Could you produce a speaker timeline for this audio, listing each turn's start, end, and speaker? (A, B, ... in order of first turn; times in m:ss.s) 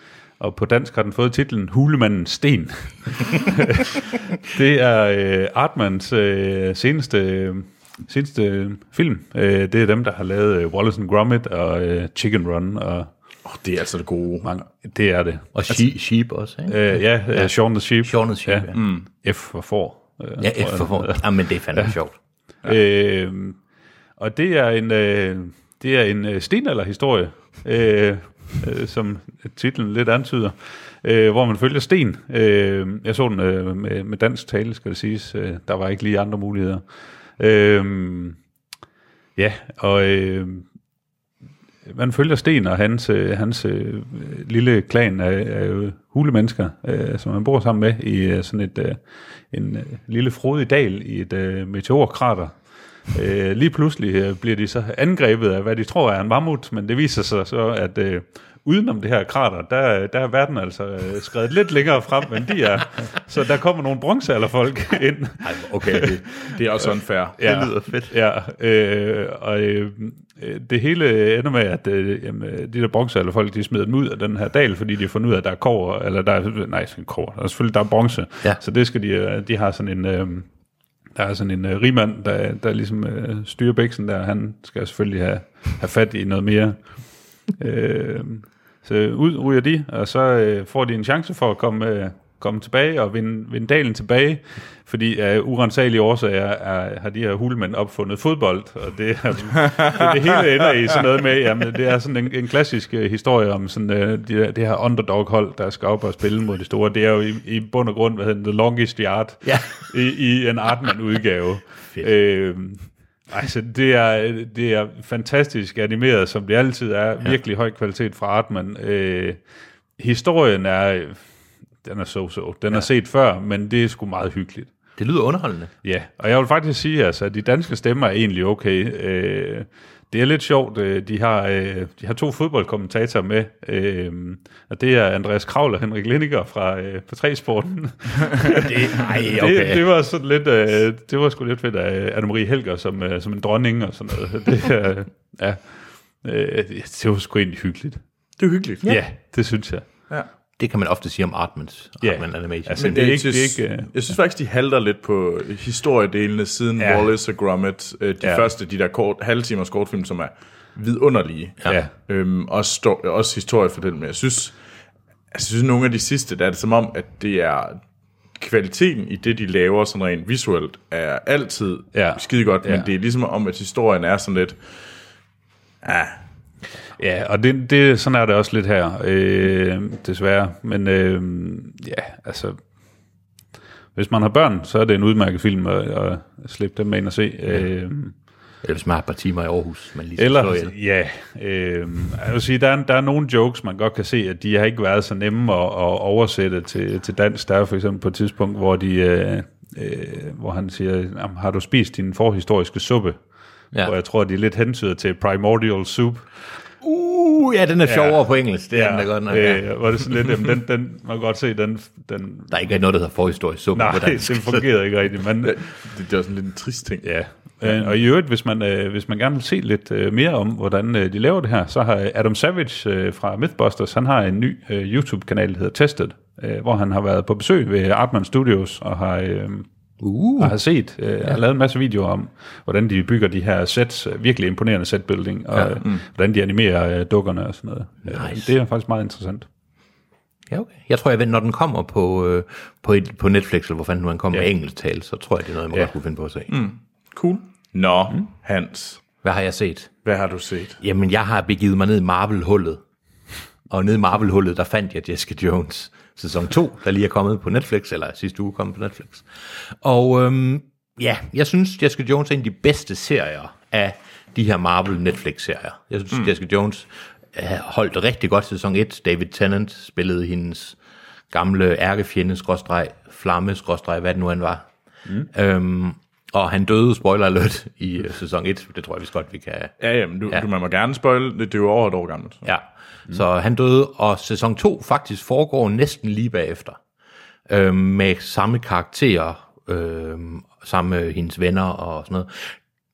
0:00.4-0:13.1 A
0:13.4-0:14.5 B
0:14.4-0:15.7 A
0:15.5-0:18.8 C
0:16.7-0:21.2 A
0:18.7-0:19.0 B
0:20.4-0:22.1 C
0:22.6-0:23.6 A
0:24.2-0:36.8 A
0:37.4-0:38.4 A
0:39.4-0:40.6 A
0:41.8-0:49.0 A
0:49.5-0:52.5 A
0:53.1-1:06.6 A
1:05.4-1:06.2 C
1:06.4-1:07.4 B
1:07.4-1:20.4 A
1:07.4-1:08.1 C
1:21.2-1:26.8 A
1:27.6-1:59.4 A
1:49.4-1:49.8 C
2:00.0-2:01.2 A
2:01.8-2:04.7 A
2:05.0-2:05.7 C
2:05.8-2:25.6 A
2:18.4-2:19.8 C
2:26.2-2:28.0 A
2:28.4-2:28.9 B
2:28.8-2:29.8 A
2:30.6-2:33.0 C
2:32.0-2:33.9 A
2:32.8-2:44.6 B
2:36.8-2:37.1 A
2:41.6-2:41.9 A
2:45.3-2:47.8 B
2:48.4-2:54.6 B
2:51.9-2:52.9 A
2:55.8-2:56.2 B
2:57.0-3:02.6 A
3:04.0-3:08.1 A
3:08.6-3:10.7 C
3:10.2-3:23.2 A
3:23.8-3:26.3 A
3:26.8-3:29.6 C
3:27.8-3:32.6 A
3:32.5-3:34.7 C
3:33.7-3:35.7 A
3:35.4-3:37.1 B
3:37.0-3:49.6 A
3:37.6-3:38.0 B
3:50.0-3:50.6 C
3:50.4-3:59.5 A
3:58.0-3:58.5 C
4:00.5-4:06.5 C
4:06.5-4:09.0 B
4:09.2-4:09.9 C
4:10.0-4:10.8 B
4:10.8-4:12.8 C
4:13.7-4:19.3 C
4:19.8-4:30.8 C
4:31.3-4:34.7 C
4:35.2-4:39.7 C
4:39.8-4:42.5 B
4:42.4-4:46.8 C
4:47.5-4:52.5 C